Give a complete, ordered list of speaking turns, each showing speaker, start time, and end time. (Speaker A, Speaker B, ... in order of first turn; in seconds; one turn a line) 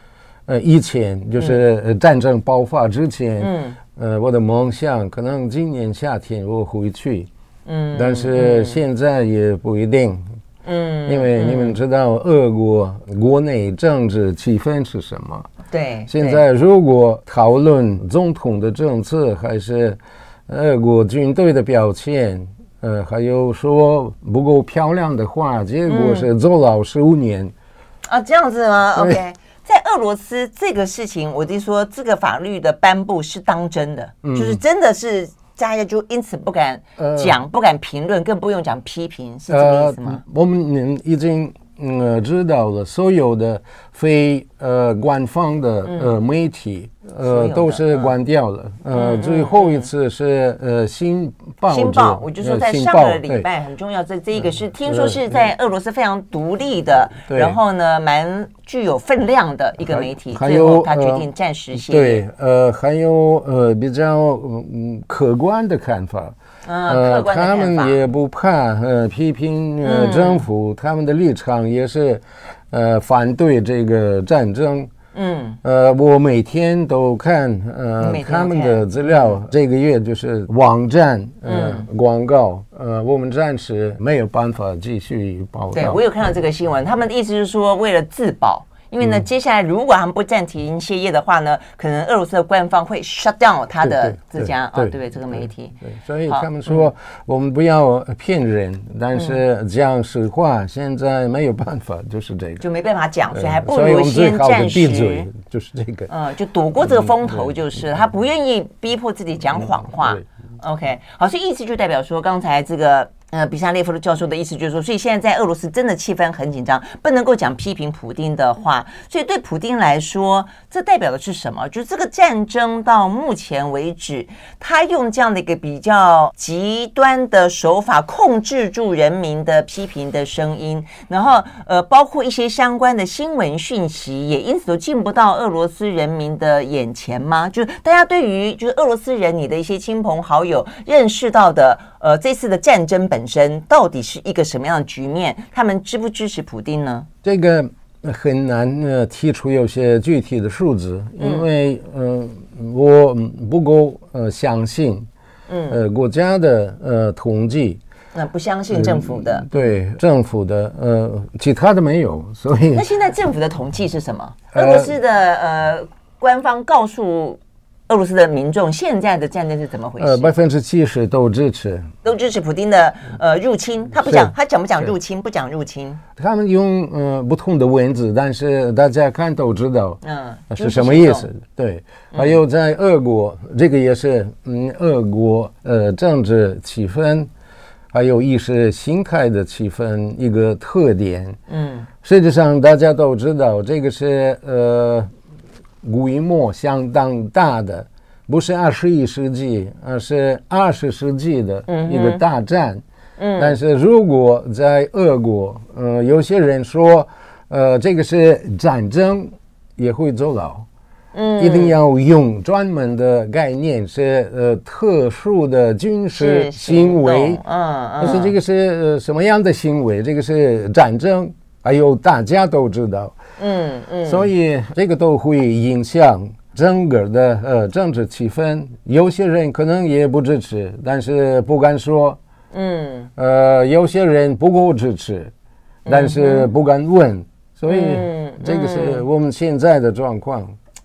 Speaker A: 0.5-7.3
Speaker B: 3.4-3.8
Speaker B: 7.7-8.8
Speaker A: 7.9-10.2
Speaker B: 10.6-11.8
Speaker A: 11.1-15.5
Speaker B: 15.7-16.4
Speaker A: 16.1-27.5
Speaker B: 25.9-26.3
Speaker B: 28.1-40.2
Speaker A: 34.2-34.6
Speaker A: 37.0-37.4
Speaker A: 39.5-53.5
Speaker B: 45.9-46.1
Speaker B: 47.2-48.1
Speaker B: 48.9-49.9
Speaker B: 51.7-62.2
Speaker A: 54.4-55.5
Speaker A: 57.3-57.6
Speaker A: 59.9-66.3
Speaker B: 66.7-68.0
Speaker A: 66.9-74.9
Speaker B: 69.8-70.4
Speaker B: 75.1-75.6
Speaker A: 75.6-86.0
Speaker B: 78.0-79.3
Speaker B: 81.4-81.8
Speaker B: 85.7-95.7
Speaker A: 93.8-102.6
Speaker B: 96.3-96.8
Speaker B: 102.6-105.3
Speaker A: 103.3-106.1
Speaker B: 106.1-147.1
Speaker A: 106.8-107.6
Speaker A: 109.5-110.2
Speaker A: 147.2-155.1
Speaker B: 151.2-151.4
Speaker B: 155.5-155.8
Speaker A: 155.7-157.8
Speaker B: 158.1-159.5
Speaker A: 158.7-162.8
Speaker B: 162.7-170.3
Speaker A: 164.5-165.0
Speaker A: 170.0-171.9
Speaker B: 172.0-176.0
Speaker A: 174.0-174.3
Speaker A: 176.2-187.3
Speaker B: 180.0-181.3
Speaker A: 187.9-191.4
Speaker B: 191.5-191.9
Speaker A: 192.0-195.1
Speaker A: 195.8-202.8
Speaker B: 201.7-202.2
Speaker B: 203.2-203.5
Speaker A: 203.4-210.7
Speaker B: 211.1-211.8
Speaker A: 211.4-217.4
Speaker B: 216.2-218.3
Speaker A: 218.0-223.2
Speaker B: 223.4-224.3
Speaker A: 224.1-232.2
Speaker B: 232.5-233.1
Speaker A: 233.2-235.3
Speaker B: 235.8-236.5
Speaker A: 235.8-240.5
Speaker B: 237.7-239.0